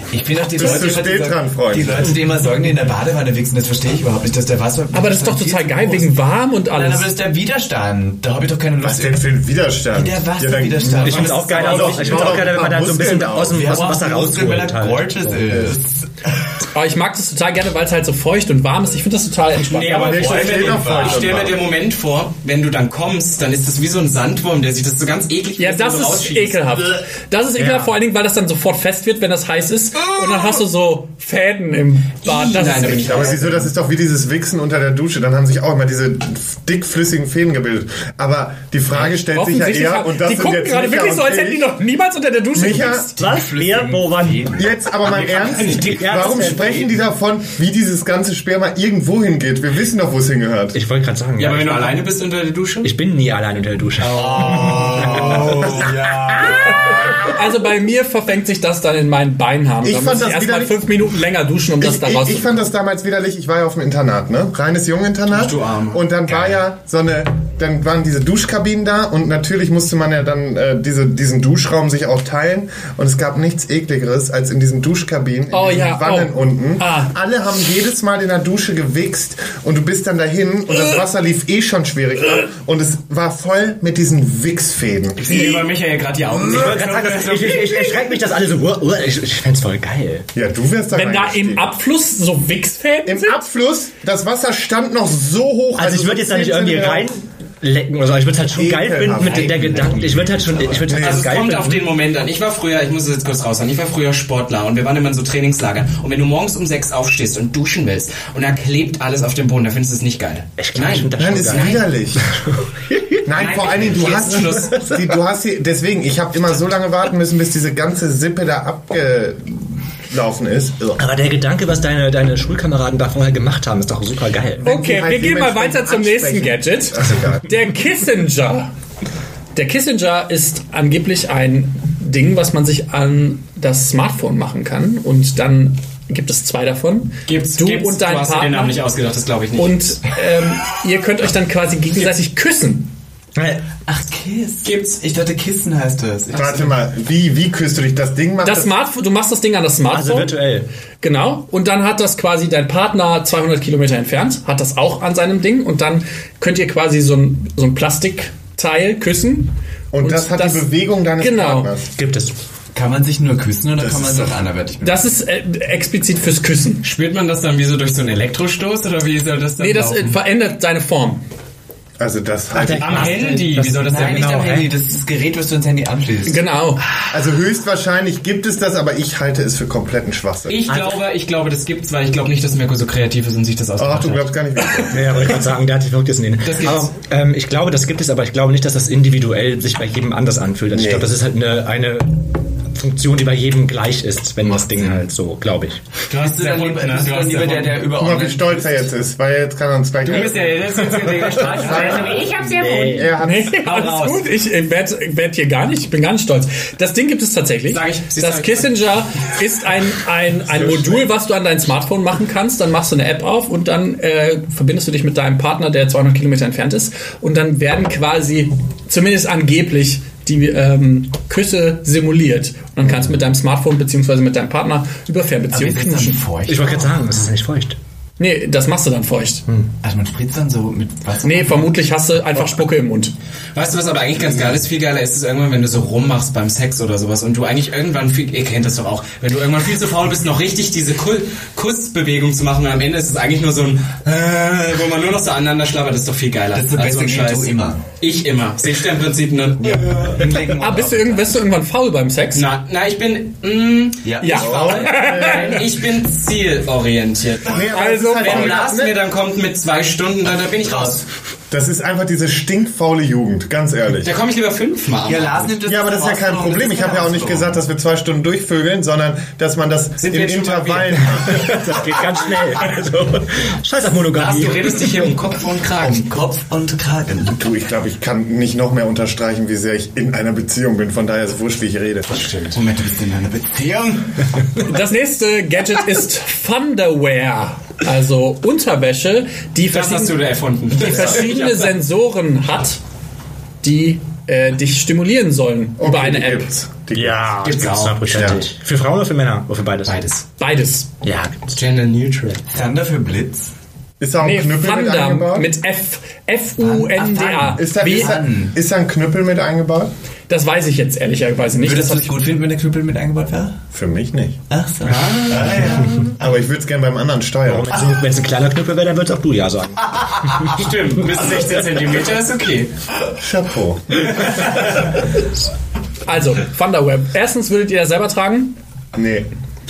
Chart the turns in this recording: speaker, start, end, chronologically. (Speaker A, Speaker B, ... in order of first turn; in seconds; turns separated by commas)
Speaker A: 0.1-6.1, Speaker B: 0.5-2.1, Speaker C: 4.9-7.1, Speaker A: 6.7-9.3, Speaker B: 8.8-13.7, Speaker A: 9.9-16.6, Speaker D: 11.0-15.7, Speaker E: 11.5-12.4, Speaker C: 16.7-20.3, Speaker E: 19.6-26.6, Speaker A: 19.6-21.4, Speaker B: 19.7-21.6, Speaker C: 25.6-33.4, Speaker D: 27.6-27.9, Speaker E: 32.2-33.6, Speaker B: 33.0-41.7, Speaker C: 39.0-43.1, Speaker B: 42.5-43.1, Speaker D: 43.2-44.5, Speaker A: 43.2-44.7, Speaker B: 44.5-50.8, Speaker E: 45.0-46.8, Speaker D: 45.9-46.9, Speaker D: 50.7-52.0, Speaker E: 51.4-52.9, Speaker D: 52.8-55.9, Speaker E: 54.0-54.5, Speaker A: 54.0-57.3, Speaker C: 57.2-62.6, Speaker B: 59.8-61.0, Speaker B: 61.8-85.4, Speaker E: 65.3-66.0, Speaker C: 75.5-77.1, Speaker E: 85.2-88.0, Speaker D: 85.3-85.6, Speaker D: 86.3-90.3, Speaker B: 90.3-91.7, Speaker C: 90.9-93.4, Speaker B: 93.0-97.0, Speaker D: 95.8-101.9, Speaker B: 98.5-99.9, Speaker A: 99.2-100.9, Speaker B: 100.9-101.3, Speaker E: 100.9-111.8, Speaker D: 110.6-113.2, Speaker B: 111.2-112.3, Speaker B: 113.2-121.0, Speaker E: 113.3-114.8, Speaker D: 120.9-124.7, Speaker B: 124.6-127.4, Speaker C: 124.6-128.7, Speaker C: 129.5-138.8, Speaker E: 137.3-140.0, Speaker C: 139.6-142.9, Speaker D: 143.3-143.6, Speaker A: 143.8-146.7, Speaker E: 144.6-145.0, Speaker B: 146.3-148.7, Speaker C: 148.4-150.4, Speaker D: 149.9-150.7, Speaker C: 151.0-161.7, Speaker B: 159.9-161.8, Speaker D: 161.9-162.3, Speaker A: 162.7-164.8, Speaker B: 163.8-164.3, Speaker C: 164.8-166.8, Speaker E: 166.8-170.2, Speaker C: 169.6-171.2, Speaker B: 172.0-173.3, Speaker D: 172.5-174.7, Speaker E: 172.7-174.6, Speaker A: 173.8-176.4, Speaker C: 176.2-176.8, Speaker B: 177.1-180.6, Speaker E: 180.5-184.3, Speaker D: 180.7-181.0, Speaker B: 183.8-185.4, Speaker D: 184.9-195.8, Speaker E: 186.4-186.9, Speaker B: 190.7-191.1, Speaker E: 196.1-197.8, Speaker A: 196.2-198.9, Speaker B: 198.0-203.6, Speaker E: 200.0-204.2, Speaker D: 202.0-203.2, Speaker C: 203.2-226.2, Speaker E: 207.7-208.7, Speaker A: 225.5-227.2, Speaker D: 226.4-227.8, Speaker C: 228.2-229.4, Speaker A: 229.8-231.7, Speaker C: 231.2-233.1, Speaker E: 233.5-250.0, Speaker A: 246.5-247.8, Speaker A: 249.7-251.3, Speaker C: 250.6-252.5, Speaker E: 252.3-257.6, Speaker A: 254.0-254.7, Speaker C: 254.2-255.6, Speaker B: 254.4-255.6, Speaker B: 257.4-259.0, Speaker C: 257.7-258.7, Speaker E: 258.1-261.0, Speaker A: 260.6-261.0, Speaker B: 261.5-264.2, Speaker E: 264.0-265.5, Speaker A: 265.1-267.6, Speaker B: 265.6-271.8, Speaker E: 270.0-271.1, Speaker D: 271.2-274.8, Speaker E: 274.1-276.0, Speaker A: 275.8-277.4, Speaker B: 277.3-282.1, Speaker E: 282.1-282.6, Speaker A: 282.5-284.4, Speaker C: 284.6-290.2, Speaker E: 289.7-291.7, Speaker C: 290.7-292.8, Speaker C: 293.6-296.5, Speaker B: 295.8-297.4, Speaker D: 296.9-300.0, Speaker E: 297.4-298.4, Speaker B: 298.1-298.4, Speaker E: 299.9-300.3, Speaker C: 300.4-300.9, Speaker D: 301.0-301.6, Speaker E: 301.5-302.4, Speaker A: 302.5-303.5, Speaker B: 304.0-305.5, Speaker C: 304.2-308.1, Speaker A: 306.6-308.5, Speaker B: 307.6-309.9, Speaker C: 310.3-312.1, Speaker A: 311.6-313.6, Speaker B: 313.7-314.4, Speaker A: 314.5-316.4, Speaker E: 314.9-315.9, Speaker B: 315.9-317.8, Speaker D: 317.4-320.5, Speaker E: 320.4-322.7, Speaker B: 323.2-324.8, Speaker C: 326.0-328.5, Speaker B: 328.9-329.3